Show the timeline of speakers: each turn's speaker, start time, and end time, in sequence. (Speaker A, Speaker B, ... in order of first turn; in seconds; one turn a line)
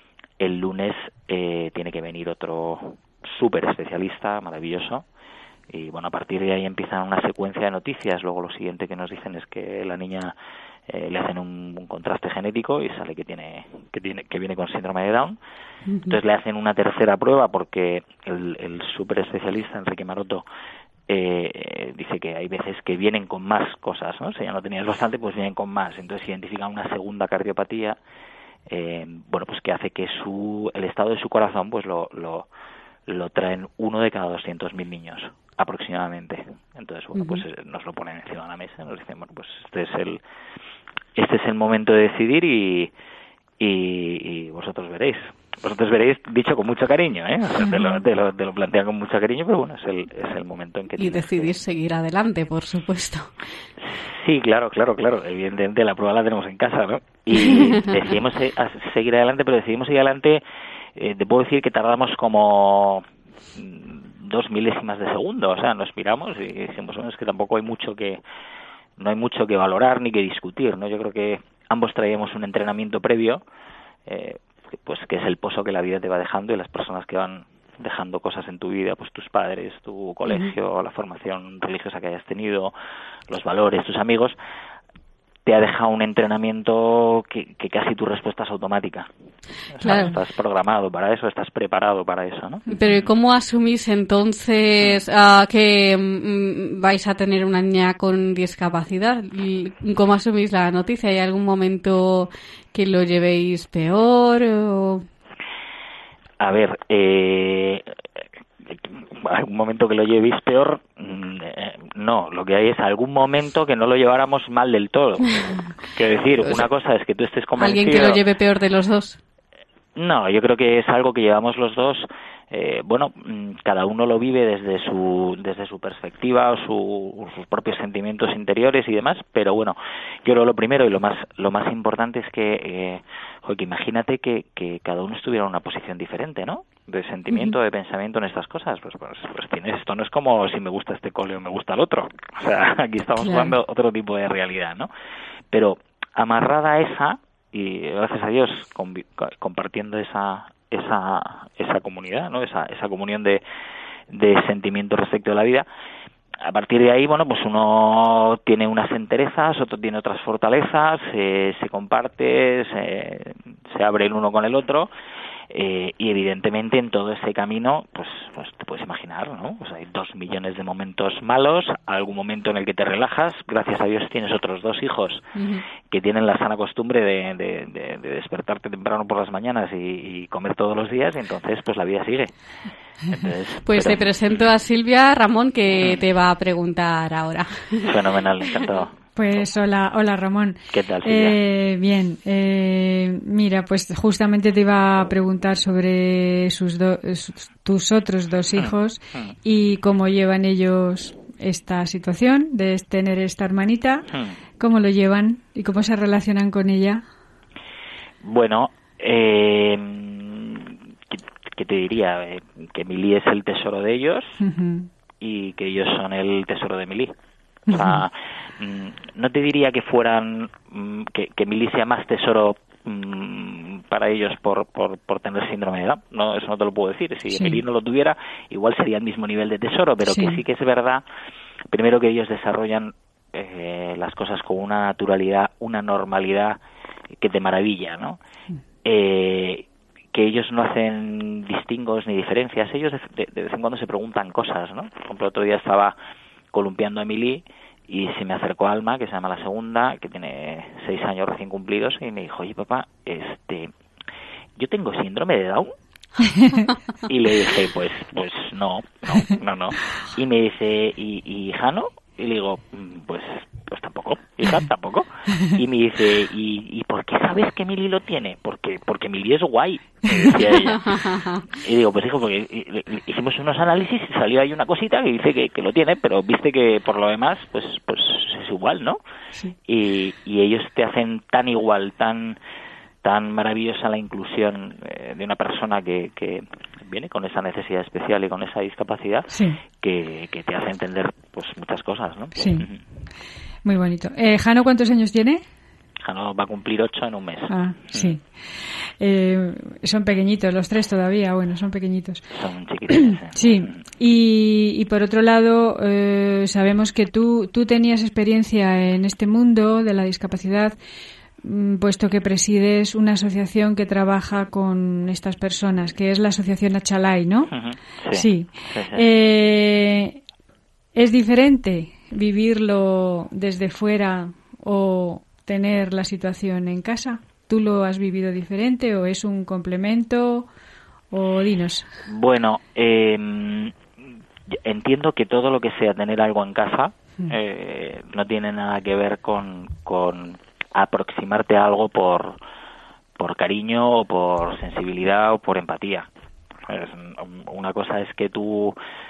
Speaker A: 0.4-5.0
Speaker A: 5.7-10.3
Speaker A: 10.9-15.4
Speaker B: 15.9-16.2
Speaker A: 16.1-20.4
Speaker A: 21.1-28.0
Speaker A: 28.7-32.5
Speaker A: 33.1-40.2
Speaker B: 37.1-37.4
Speaker A: 41.1-42.9
Speaker A: 43.6-51.5
Speaker B: 47.7-48.0
Speaker B: 51.0-53.3
Speaker A: 53.9-60.4
Speaker B: 57.3-57.8
Speaker A: 60.9-68.2
Speaker A: 69.0-73.4
Speaker A: 74.0-82.7
Speaker A: 83.3-84.3
Speaker A: 85.4-89.1
Speaker A: 89.8-92.6
Speaker B: 89.8-90.2
Speaker B: 92.7-105.1
Speaker A: 106.4-107.9
Speaker A: 108.6-115.4
Speaker A: 115.9-118.2
Speaker B: 116.4-116.7
Speaker B: 117.6-119.2
Speaker A: 120.0-144.9
Speaker B: 137.3-137.6
Speaker B: 143.2-143.5
Speaker A: 145.5-153.4
Speaker A: 154.1-155.7
Speaker A: 156.4-164.9
Speaker A: 165.5-175.2
Speaker B: 175.3-175.6
Speaker A: 175.9-182.3
Speaker A: 183.1-184.4
Speaker B: 183.7-187.9
Speaker A: 187.8-189.5
Speaker C: 189.1-204.1
Speaker A: 190.7-191.4
Speaker A: 198.5-199.3
Speaker A: 204.1-204.3
Speaker C: 204.6-207.0
Speaker A: 208.2-214.4
Speaker C: 214.4-214.9
Speaker A: 215.2-217.1
Speaker C: 217.7-218.0
Speaker A: 217.7-231.0
Speaker C: 227.3-227.6
Speaker C: 230.1-230.4
Speaker A: 231.7-236.6
Speaker A: 237.2-238.2
Speaker A: 238.8-245.9
Speaker A: 246.5-253.7
Speaker A: 254.6-255.7
Speaker A: 257.1-279.0
Speaker B: 270.6-271.4
Speaker A: 279.7-282.4
Speaker A: 283.0-292.8
Speaker C: 289.3-289.6
Speaker C: 292.4-292.7
Speaker C: 293.6-295.4
Speaker A: 296.0-298.2
Speaker C: 297.5-298.3
Speaker C: 299.0-302.2
Speaker A: 302.3-303.9
Speaker C: 302.9-310.7
Speaker C: 311.4-317.5
Speaker A: 317.5-319.0
Speaker C: 318.1-320.2
Speaker C: 320.9-330.5
Speaker C: 331.1-331.9
Speaker A: 332.1-333.8
Speaker A: 334.5-342.4
Speaker A: 343.2-346.1
Speaker A: 346.7-348.8